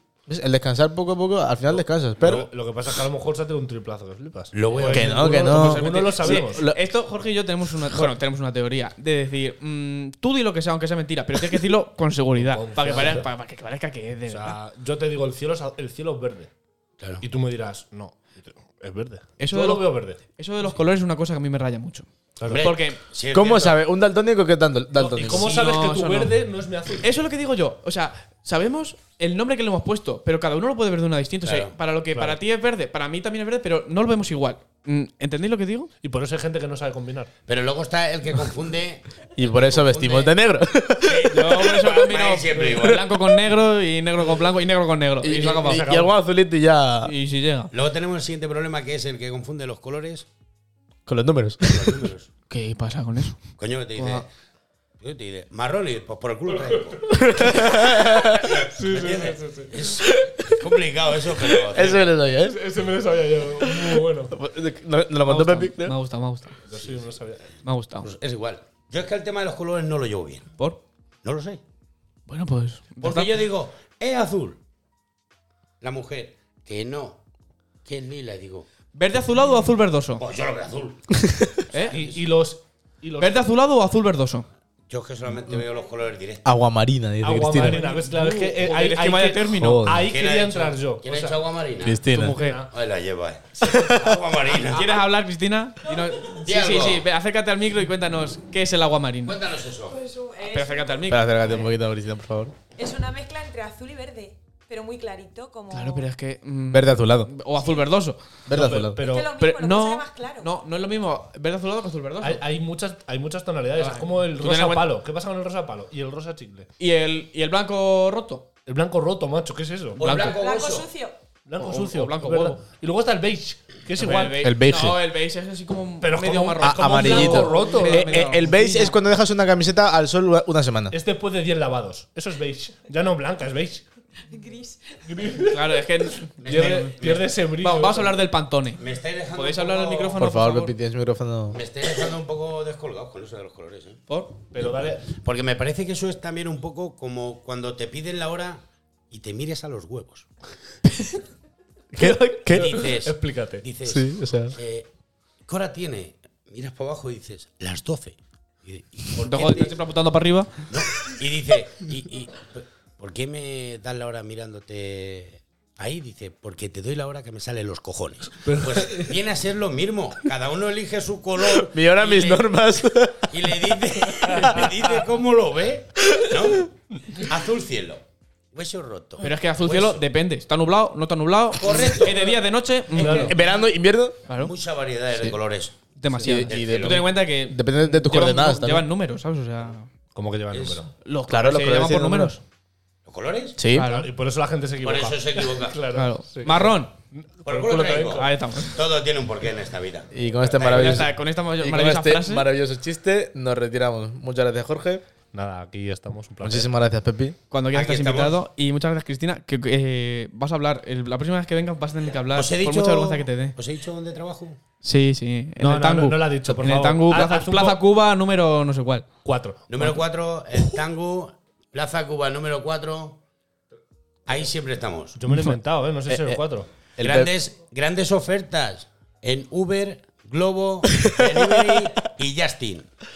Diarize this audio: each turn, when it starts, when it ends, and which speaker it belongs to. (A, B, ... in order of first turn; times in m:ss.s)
0:00.3-0:02.5 A
0:02.2-0:06.6 B
0:04.5-0:05.4 C
0:04.9-0:06.8 A
0:05.3-0:14.6 D
0:12.4-0:13.3 B
0:14.3-0:16.5 B
0:17.2-0:20.2 B
0:19.4-0:23.0 D
0:22.4-0:22.6 B
0:22.4-0:23.8 C
0:23.3-0:25.5 A
0:25.0-0:27.1 B
0:25.2-0:26.3 D
0:27.0-0:35.9 D
0:31.4-0:31.7 C
0:32.1-0:32.4 B
0:36.0-0:37.3 B
0:37.5-0:40.3 C
0:39.4-0:41.4 A
0:41.0-0:43.3 C
0:41.3-0:45.9 D
0:45.2-0:47.1 A
0:45.4-0:46.1 B
0:47.0-0:47.7 D
0:47.7-0:50.3 C
0:51.0-0:52.1 A
0:51.6-0:52.3 C
0:52.5-0:53.4 D
0:53.6-0:54.2 C
0:53.9-0:54.2 D
0:55.0-0:57.7 C
0:57.1-0:58.7 A
0:58.4-1:02.1 C
0:58.7-1:00.0 B
1:00.0-1:00.5 A
1:01.5-1:02.6 A
1:02.4-1:04.3 B
1:03.6-1:06.0 A
1:05.2-1:06.6 D
1:06.6-1:07.5 B
1:07.6-1:08.1 D
1:08.0-1:10.5 C
1:11.2-1:11.6 C
1:12.3-1:13.4 D
1:13.0-1:14.6 C
1:15.8-1:17.2 C
1:17.8-1:18.7 C
1:18.9-1:20.2 D
1:20.2-1:21.2 C
1:21.2-1:21.5 A
1:21.7-1:22.2 C
1:21.8-1:23.5 B
1:23.2-1:24.4 D
1:24.9-1:26.4 C
1:26.4-1:27.8 A
1:27.2-1:31.4 B
1:27.6-1:29.9 D
1:29.6-1:30.1 A
1:30.1-1:32.0 C
1:31.8-1:32.4 A
1:32.1-1:32.6 D
1:32.2-1:32.7 B
1:32.7-1:35.0 C
1:33.6-1:34.2 A
1:34.6-1:39.4 D
1:36.3-1:37.0 C
1:39.2-1:40.0 C
1:39.9-1:41.2 E
1:40.4-1:41.7 D
1:41.1-1:42.5 A
1:42.7-1:46.1 E
1:45.7-1:48.2 D
1:46.7-1:47.3 A
1:48.5-1:49.0 A
1:48.5-1:49.3 B
1:49.0-1:50.5 E
1:49.4-1:52.4 D
1:52.2-1:56.7 B
1:53.8-1:54.9 D
1:56.8-1:58.4 D
1:58.6-2:00.0 B
2:00.0-2:00.9 C
2:00.0-2:00.4 D
2:00.1-2:01.2 E
2:01.4-2:04.4 B
2:01.6-2:02.6 D
2:04.0-2:08.9 D
2:04.4-2:05.0 A
2:06.0-2:08.6 B
2:06.6-2:10.9 A
2:10.9-2:13.8 B
2:14.3-2:15.5 E
2:15.0-2:15.8 B
2:15.4-2:20.7 D
2:16.4-2:18.2 B
2:16.4-2:17.3 C
2:18.8-2:20.2 C
2:20.2-2:21.6 A
2:21.5-2:24.0 C
2:24.1-2:24.4 D
2:24.5-2:25.0 B
2:25.1-2:30.3 C
2:31.9-2:32.9 A
2:32.5-2:34.9 C
2:32.5-2:33.6 B
2:33.8-2:34.6 A
2:35.5-2:39.8 C
2:39.2-2:40.7 D
2:40.7-2:52.5 C
2:48.4-2:49.2 B
2:51.5-2:54.7 A
2:53.3-3:00.0 C
2:54.2-2:54.7 B
2:56.0-2:56.6 A
2:59.2-3:03.3 D
3:01.6-3:02.3 C
3:01.9-3:02.3 B
3:02.9-3:03.4 B
3:03.0-3:04.2 A
3:03.0-3:03.3 C
3:04.3-3:04.5 D
3:04.3-3:05.8 C
3:06.0-3:09.9 D
3:06.2-3:08.8 A
3:06.4-3:07.0 C
3:10.1-3:10.9 B
3:10.5-3:10.8 C
3:11.0-3:12.4 D
3:11.3-3:12.4 A
3:13.0-3:13.6 C
3:13.6-3:13.9 A
3:13.7-3:14.1 D
3:13.8-3:18.4 B
3:14.8-3:15.8 C
3:15.9-3:16.9 D
3:17.4-3:21.0 C
3:18.1-3:18.8 D
3:20.1-3:25.0 A
3:20.6-3:22.5 D
3:25.3-3:26.7 B
3:26.4-3:27.4 A
3:27.5-3:33.6 D
3:27.7-3:28.4 C
3:32.3-3:34.6 C
3:34.8-3:39.1 D
3:35.6-3:37.8 B
3:39.2-3:39.7 B
3:39.7-3:43.2 C
3:44.2-3:45.2 C
3:45.1-3:46.7 B
3:46.1-3:46.4 A
3:47.0-3:47.3 A
3:47.0-3:52.9 C
3:50.9-3:51.9 A